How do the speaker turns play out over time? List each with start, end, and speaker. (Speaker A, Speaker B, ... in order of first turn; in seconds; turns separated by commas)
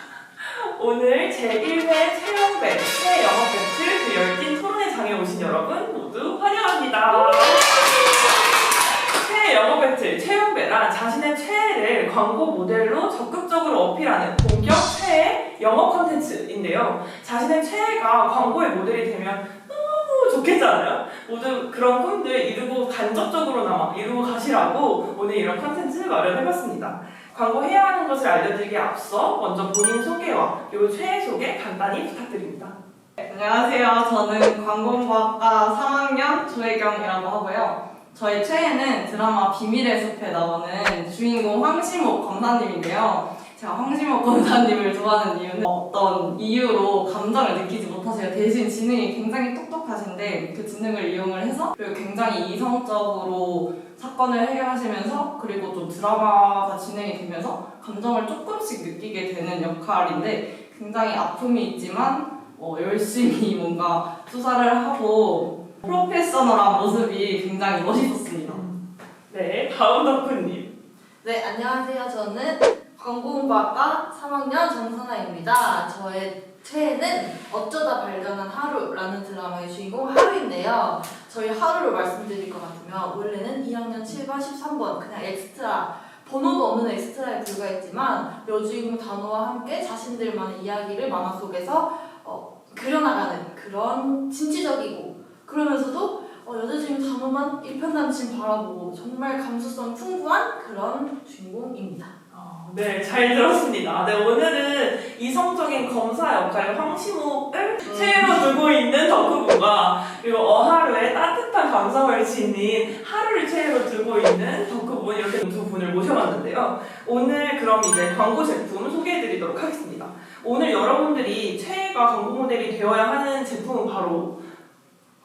Speaker A: 0.4-32.8, Speaker B: 33.2-68.6, Speaker A: 68.5-68.8, Speaker A: 69.3-70.7, Speaker C: 71.2-102.1, Speaker A: 102.3-124.3, Speaker C: 107.9-108.2